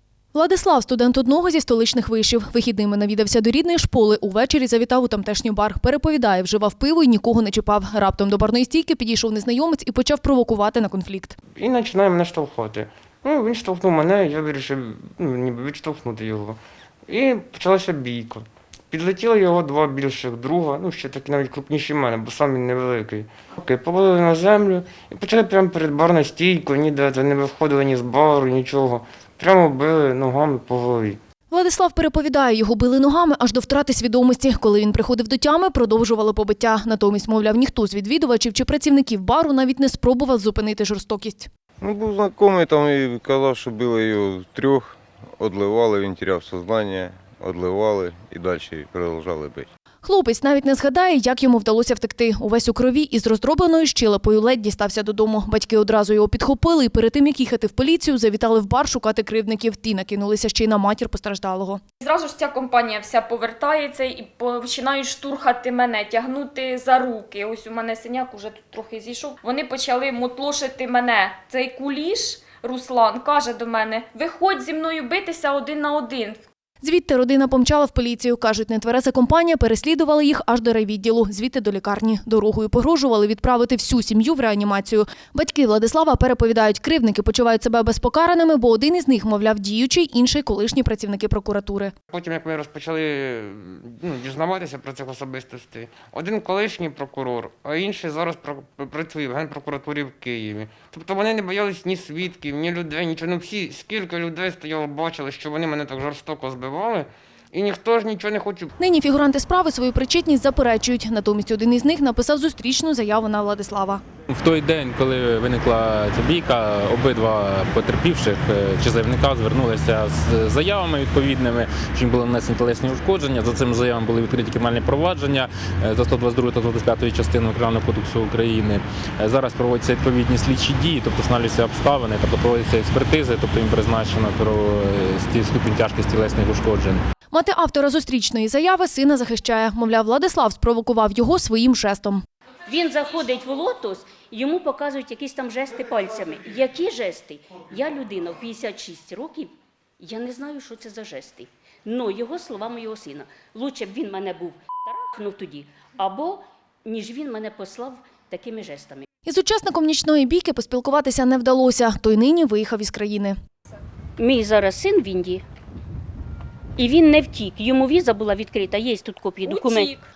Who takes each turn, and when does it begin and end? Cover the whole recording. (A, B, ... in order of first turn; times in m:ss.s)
0:00.3-0:11.4 A
0:11.6-0:31.2 B
0:31.5-0:41.5 A
0:41.8-0:49.7 C
0:50.0-1:01.8 A
1:02.0-1:16.4 D
1:16.8-1:31.9 A
1:32.1-1:48.7 B
1:48.8-1:54.0 A
1:54.3-2:17.0 E
2:17.3-2:22.2 A
2:22.7-2:39.0 F
2:39.2-2:43.4 A
2:44.2-2:45.4 F
2:46.8-2:49.9 F
2:49.4-2:49.9 D